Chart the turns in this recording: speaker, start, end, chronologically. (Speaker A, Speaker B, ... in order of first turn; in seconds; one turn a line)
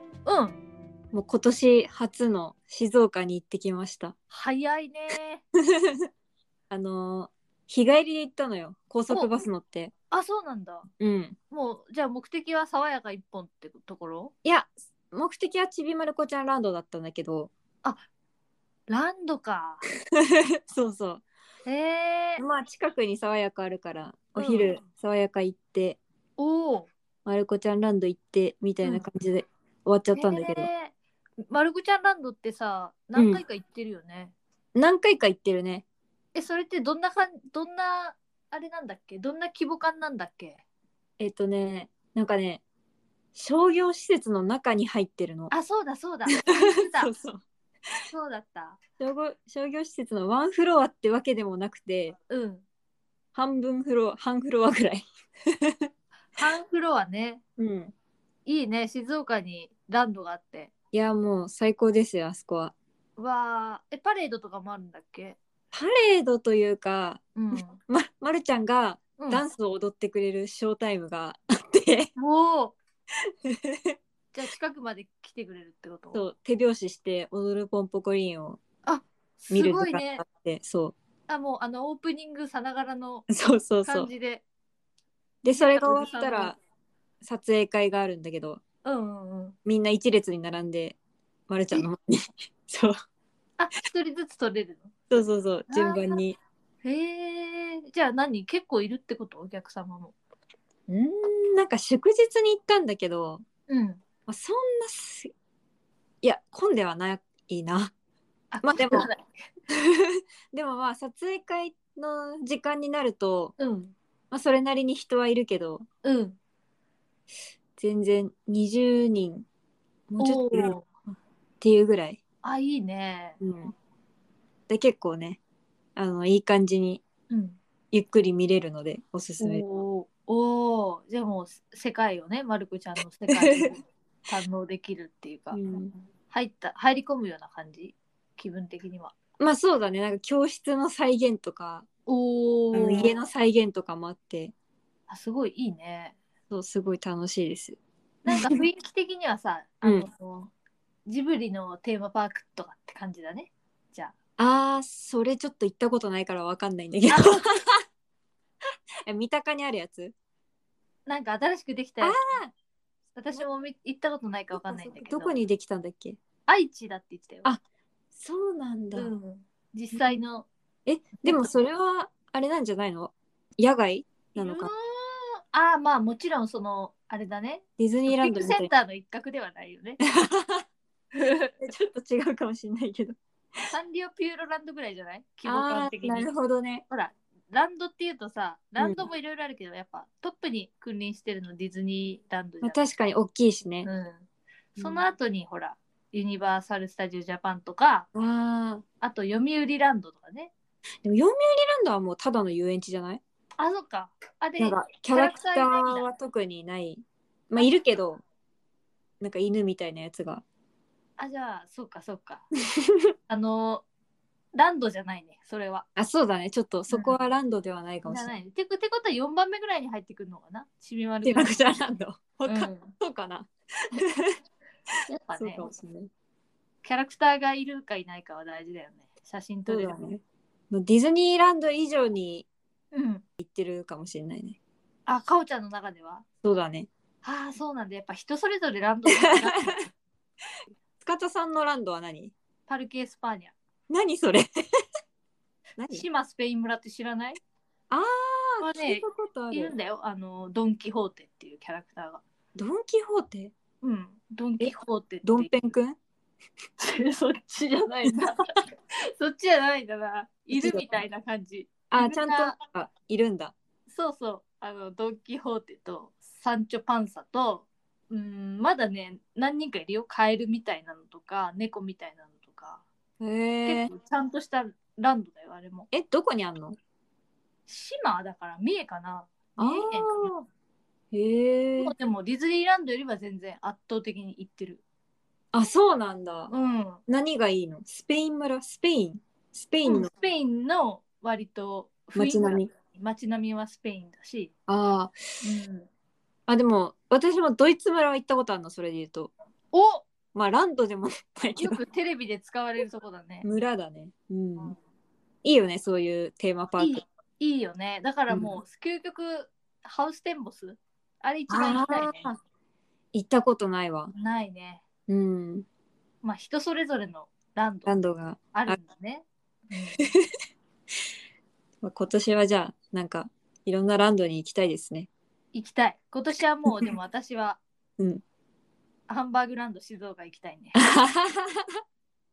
Speaker A: 0.2-0.6
Speaker B: 1.1-4.2
Speaker A: 4.3-5.4
Speaker B: 5.8-6.1
Speaker B: 6.7-9.9
Speaker A: 9.1-9.4
Speaker A: 10.1-10.9
Speaker B: 11.0-11.4
Speaker A: 11.5-14.3
Speaker B: 14.4-17.5
Speaker A: 18.9-19.8
Speaker B: 20.2-21.2
Speaker A: 21.6-22.4
Speaker B: 22.4-26.0
Speaker A: 24.4-24.8
Speaker A: 26.4-26.9
Speaker B: 27.2-30.7
Speaker A: 30.1-30.9
Speaker A: 31.5-34.3
Speaker B: 33.1-33.4
Speaker B: 34.8-35.9
Speaker A: 36.4-40.6
Speaker B: 41.2-42.6
Speaker B: 43.4-45.5
Speaker A: 45.5-47.1
Speaker B: 46.5-47.4
Speaker A: 48.1-48.8
Speaker B: 49.0-52.2
Speaker A: 52.3-52.6
Speaker B: 53.4-55.9
Speaker A: 56.4-57.4
Speaker B: 57.6-57.9
Speaker A: 58.5-60.7
Speaker B: 60.9-62.8
Speaker A: 63.2-65.4
Speaker B: 65.7-72.1
Speaker A: 67.4-67.8
Speaker A: 69.2-69.4
Speaker A: 72.2-72.8
Speaker B: 73.5-74.0
Speaker A: 74.3-76.2
Speaker B: 76.1-78.6
Speaker A: 78.8-80.2
Speaker B: 79.5-81.0
Speaker A: 81.3-83.3
Speaker B: 83.3-84.1
Speaker A: 83.8-84.5
Speaker B: 85.4-86.6
Speaker A: 85.5-86.5
Speaker B: 87.2-88.6
Speaker A: 88.8-89.6
Speaker B: 89.7-91.0
Speaker B: 91.5-93.0
Speaker A: 93.6-94.9
Speaker B: 95.1-96.4
Speaker A: 95.7-96.2
Speaker A: 96.8-100.2
Speaker B: 100.9-103.5
Speaker A: 103.7-104.0
Speaker B: 104.3-105.3
Speaker B: 106.2-107.9
Speaker A: 108.5-109.3
Speaker B: 108.6-109.1
Speaker B: 109.7-113.6
Speaker A: 113.6-113.9
Speaker B: 114.3-115.9
Speaker A: 116.0-116.4
Speaker B: 117.8-119.5
Speaker B: 120.1-120.8
Speaker A: 120.2-120.9
Speaker B: 121.6-122.2
Speaker A: 122.4-123.4
Speaker B: 123.4-123.7
Speaker B: 124.7-125.4
Speaker B: 126.0-127.0
Speaker A: 127.3-127.6
Speaker B: 127.9-129.6
Speaker A: 129.4-139.1
Speaker B: 133.3-133.7
Speaker B: 135.5-135.9
Speaker B: 139.4-141.9
Speaker A: 142.1-143.2
Speaker B: 142.7-144.5
Speaker A: 145.1-146.2
Speaker B: 146.5-148.5
Speaker A: 148.2-150.5
Speaker A: 151.1-154.2
Speaker B: 154.4-157.7
Speaker A: 157.1-157.4
Speaker B: 159.1-160.1
Speaker A: 161.1-162.2
Speaker B: 162.0-162.5
Speaker A: 163.2-165.3
Speaker B: 164.5-166.2
Speaker A: 166.5-167.5
Speaker B: 168.2-169.1
Speaker A: 169.0-170.5
Speaker B: 169.9-170.2
Speaker B: 170.9-174.7
Speaker A: 171.2-171.5
Speaker A: 174.4-180.0
Speaker B: 177.8-178.7
Speaker B: 180.0-180.7
Speaker A: 181.2-181.5
Speaker B: 181.6-183.2
Speaker A: 183.7-186.3
Speaker B: 185.4-186.8
Speaker A: 186.9-192.8
Speaker B: 188.8-189.1
Speaker B: 192.6-193.9
Speaker A: 193.8-198.1
Speaker B: 194.8-195.1
Speaker B: 198.2-198.8
Speaker A: 199.0-200.5
Speaker B: 201.0-203.2
Speaker A: 203.6-206.1
Speaker B: 204.6-208.2
Speaker B: 209.2-210.4
Speaker A: 211.2-212.4
Speaker A: 213.3-213.8
Speaker A: 214.5-215.9
Speaker B: 216.0-218.3
Speaker A: 216.9-217.2
Speaker A: 218.1-221.6
Speaker B: 221.2-224.3
Speaker A: 222.5-222.9
Speaker A: 225.1-225.7
Speaker B: 225.3-226.1
Speaker A: 226.8-230.0
Speaker B: 229.7-232.5
Speaker A: 232.9-233.2
Speaker B: 233.4-234.6
Speaker A: 235.1-236.2
Speaker B: 236.4-236.9
Speaker A: 237.2-239.9
Speaker B: 239.1-239.8
Speaker B: 241.0-242.3
Speaker A: 242.7-243.6
Speaker B: 243.9-244.5
Speaker B: 245.8-246.1
Speaker A: 245.9-247.4
Speaker B: 247.9-249.7
Speaker A: 248.6-252.2
Speaker B: 252.6-253.5
Speaker A: 253.8-255.5
Speaker B: 254.6-256.0
Speaker A: 256.8-258.4
Speaker A: 259.2-262.6
Speaker B: 260.5-261.0
Speaker B: 261.9-263.6
Speaker A: 263.9-272.8
Speaker B: 273.2-273.9
Speaker A: 273.6-275.9
Speaker B: 275.9-276.8
Speaker A: 277.7-280.3
Speaker B: 279.6-280.4
Speaker B: 281.1-281.9
Speaker A: 281.8-284.8
Speaker B: 285.5-286.5
Speaker A: 286.5-287.0
Speaker B: 287.1-290.1
Speaker A: 289.8-294.5
Speaker B: 292.1-292.7
Speaker B: 294.7-295.6
Speaker A: 295.4-295.9
Speaker B: 296.5-299.3
Speaker A: 299.7-300.1
Speaker B: 300.3-301.8
Speaker A: 301.6-303.4
Speaker B: 303.4-304.8
Speaker B: 305.4-307.0
Speaker A: 306.8-312.3
Speaker B: 308.3-308.6
Speaker B: 311.5-312.4
Speaker B: 313.1-314.1
Speaker A: 314.1-314.8
Speaker B: 315.1-315.7
Speaker A: 316.2-318.0
Speaker B: 317.9-318.8
Speaker A: 318.5-320.1
Speaker B: 321.8-325.1
Speaker A: 325.5-327.6
Speaker B: 328.0-328.2
Speaker A: 329.1-330.9
Speaker B: 330.8-331.8